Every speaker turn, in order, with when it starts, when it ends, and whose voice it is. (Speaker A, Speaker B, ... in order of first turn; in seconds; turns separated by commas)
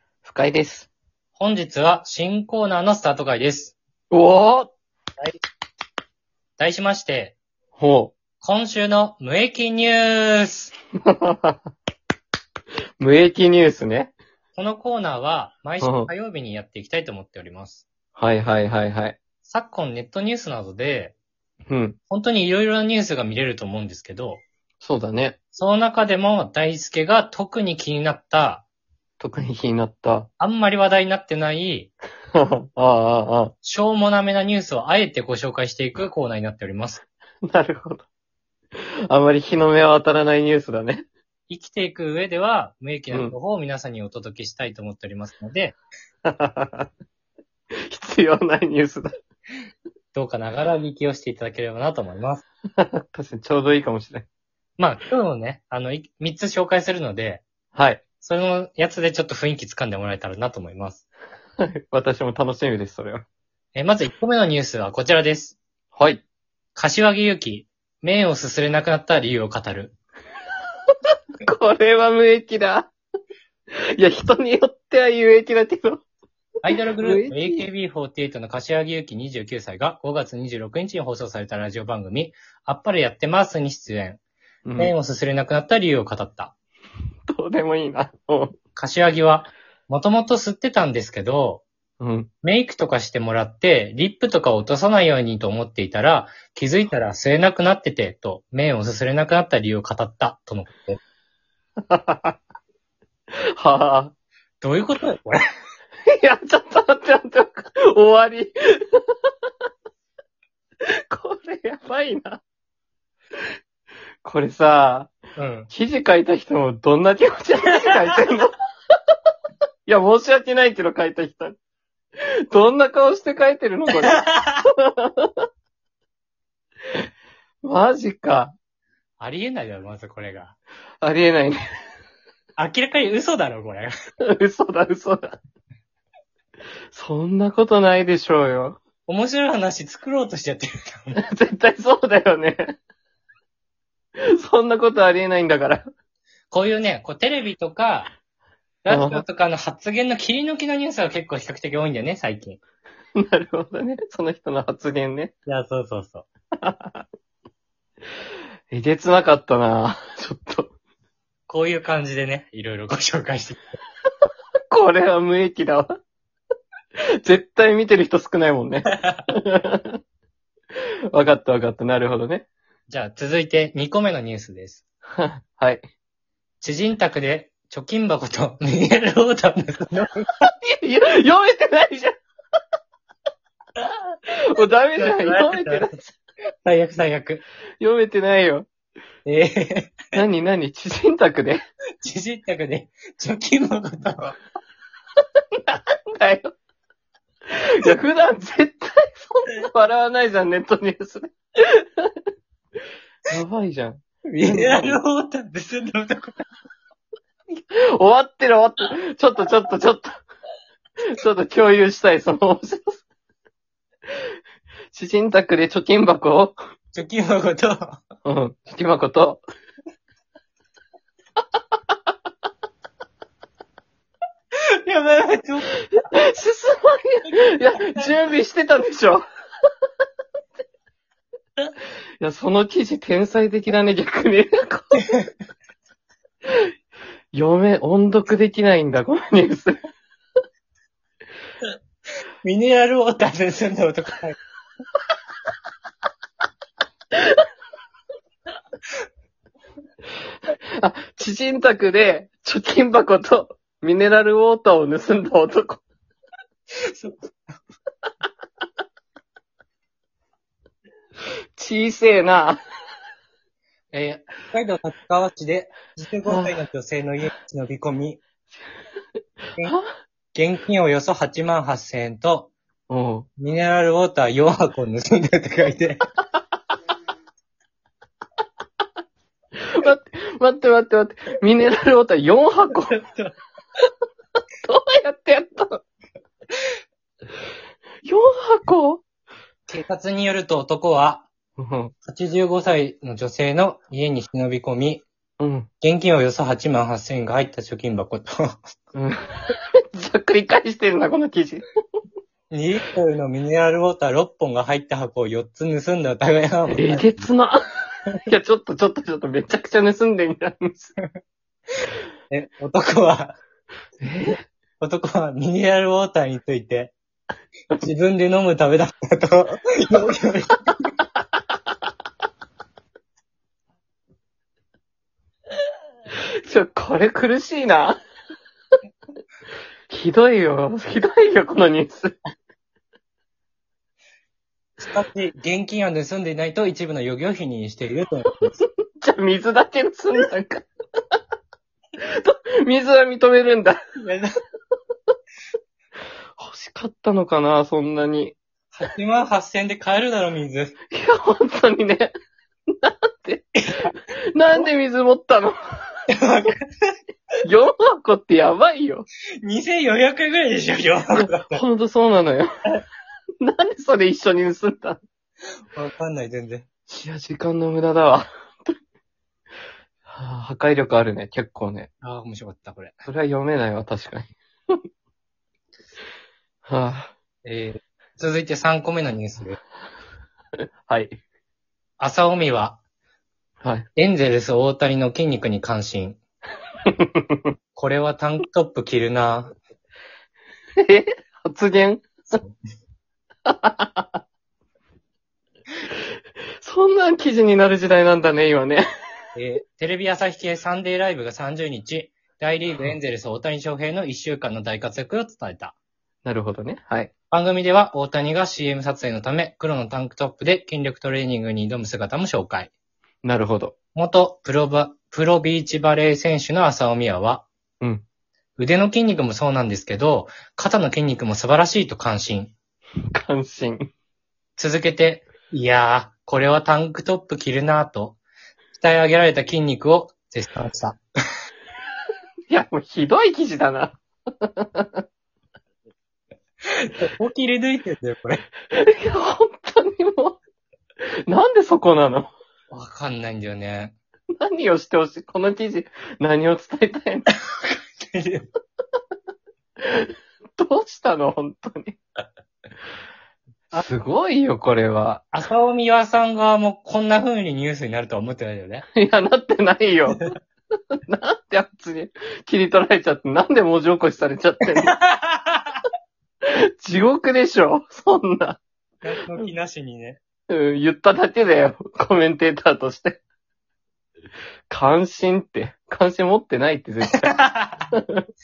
Speaker A: 0.2-0.9, Speaker B: 1.4-3.8, Speaker A: 4.1-4.7, Speaker B: 6.6-7.4, Speaker A: 7.7-8.1, Speaker B: 8.4-10.7, Speaker A: 11.1-11.6, Speaker A: 13.0-14.1, Speaker B: 14.5-17.9, Speaker A: 15.8-16.1, Speaker A: 18.1-19.2, Speaker B: 19.4-21.1, Speaker A: 21.7-22.0, Speaker B: 22.1-24.4, Speaker A: 24.8-25.4, Speaker B: 25.5-28.6, Speaker A: 29.2-30.3, Speaker B: 30.4-31.9, Speaker A: 32.3-33.5, Speaker B: 33.6-37.0, Speaker A: 37.5-38.0, Speaker A: 39.1-41.0, Speaker B: 41.5-45.8, Speaker A: 46.2-46.9, Speaker A: 47.9-49.1, Speaker B: 50.1-52.4, Speaker A: 52.8-54.2, Speaker B: 54.8-57.4, Speaker A: 57.7-58.0, Speaker B: 58.2-61.0, Speaker A: 61.6-63.2, Speaker B: 63.7-65.6, Speaker A: 65.9-66.2, Speaker B: 66.8-70.0, Speaker A: 71.4-72.9, Speaker A: 74.0-76.0, Speaker B: 76.6-84.2, Speaker A: 77.0-77.7, Speaker A: 84.6-84.9, Speaker B: 84.8-86.5, Speaker A: 87.3-88.5, Speaker B: 88.8-91.6, Speaker A: 92.0-92.3, Speaker B: 92.4-101.0, Speaker A: 101.9-102.4, Speaker A: 103.6-104.1, Speaker B: 104.6-105.4, Speaker A: 106.1-109.1, Speaker A: 111.1-112.4, Speaker A: 114.2-115.1, Speaker B: 115.4-115.7, Speaker A: 115.7-118.5, Speaker A: 119.9-121.5, Speaker A: 122.5-124.2, Speaker B: 124.0-124.7, Speaker A: 124.8-125.4, Speaker A: 127.6-128.5, Speaker B: 129.2-130.6, Speaker A: 131.0-131.6, Speaker B: 132.6-133.9, Speaker A: 134.3-135.3, Speaker A: 136.9-138.8, Speaker B: 139.1-141.2, Speaker A: 141.2-142.8, Speaker A: 144.4-145.8, Speaker B: 146.5-148.1, Speaker B: 148.8-152.6, Speaker A: 148.9-149.2, Speaker A: 153.2-155.3, Speaker B: 155.5-156.2, Speaker A: 156.6-157.0, Speaker A: 158.7-160.7, Speaker B: 161.5-163.8, Speaker A: 164.7-165.9, Speaker A: 167.2-170.0, Speaker A: 171.1-172.5, Speaker B: 172.9-174.8, Speaker A: 175.2-175.8, Speaker B: 176.6-180.2, Speaker A: 180.4-182.1, Speaker A: 183.8-186.1, Speaker B: 184.9-186.0, Speaker B: 186.6-187.4, Speaker A: 187.8-188.7, Speaker B: 189.2-190.0, Speaker A: 190.1-191.6, Speaker B: 192.0-194.4, Speaker A: 195.7-196.5, Speaker A: 197.5-202.1, Speaker A: 203.3-205.0, Speaker B: 204.3-206.3, Speaker A: 207.7-210.2, Speaker A: 211.1-213.0, Speaker A: 214.9-216.6, Speaker B: 216.9-218.0, Speaker A: 218.2-219.4, Speaker B: 224.8-225.7, Speaker A: 225.9-229.2, Speaker A: 232.2-235.0, Speaker A: 237.3-239.8, Speaker B: 242.4-244.4, Speaker A: 250.5-255.8, Speaker A: 261.6-262.6, Speaker B: 263.9-268.2, Speaker A: 266.3-266.5, Speaker B: 270.3-272.5, Speaker A: 272.9-273.3, Speaker B: 273.4-276.0, Speaker A: 279.6-283.0, Speaker B: 282.9-283.3, Speaker A: 284.6-285.8, Speaker A: 288.0-289.0, Speaker B: 289.7-291.3, Speaker A: 291.6-291.9, Speaker B: 292.0-295.0, Speaker A: 295.4-295.7, Speaker B: 295.8-298.6, Speaker A: 298.9-301.6, Speaker B: 302.5-307.1, Speaker A: 306.7-307.6, Speaker A: 308.2-310.9, Speaker B: 312.3-313.4, Speaker A: 314.0-314.4, Speaker B: 314.8-316.9, Speaker B: 317.8-320.7, Speaker A: 326.4-328.0, Speaker A: 329.9-332.1, Speaker B: 334.8-338.6, Speaker A: 339.0-340.6, Speaker A: 342.0-343.8, Speaker B: 344.0-344.3, Speaker A: 346.4-348.4, Speaker B: 348.7-350.8, Speaker A: 350.9-352.1, Speaker A: 352.7-355.6, Speaker B: 356.1-356.9, Speaker A: 357.4-359.1, Speaker B: 359.4-361.6, Speaker A: 361.1-362.5, Speaker A: 363.4-365.0, Speaker B: 365.7-366.7, Speaker A: 367.0-368.7, Speaker A: 370.1-371.9, Speaker B: 372.0-373.0, Speaker A: 373.1-374.8, Speaker A: 376.6-377.1, Speaker B: 377.4-379.6, Speaker A: 380.9-381.1, Speaker B: 382.0-382.8, Speaker B: 383.9-386.2, Speaker A: 386.9-387.4, Speaker B: 387.7-389.5, Speaker A: 390.8-392.0, Speaker B: 392.3-392.5, Speaker A: 393.5-394.2, Speaker A: 396.6-398.8, Speaker B: 399.4-405.7, Speaker A: 406.2-407.1, Speaker B: 407.3-412.7, Speaker A: 413.2-413.7, Speaker B: 413.9-417.5, Speaker B: 418.6-422.5, Speaker A: 423.1-423.9, Speaker B: 424.6-428.2, Speaker B: 428.7-431.0, Speaker A: 432.5-435.0, Speaker B: 436.7-438.4, Speaker A: 438.7-440.4, Speaker A: 441.3-442.3, Speaker B: 442.7-443.9, Speaker A: 444.4-447.3, Speaker B: 447.6-448.5, Speaker A: 449.8-452.0, Speaker A: 453.7-455.2, Speaker B: 455.3-458.8, Speaker A: 458.9-460.3, Speaker A: 460.9-464.9, Speaker B: 464.9-465.8, Speaker A: 466.5-468.6, Speaker B: 469.0-470.2, Speaker A: 470.5-473.2, Speaker A: 474.7-477.3, Speaker B: 477.1-477.9, Speaker A: 477.9-478.2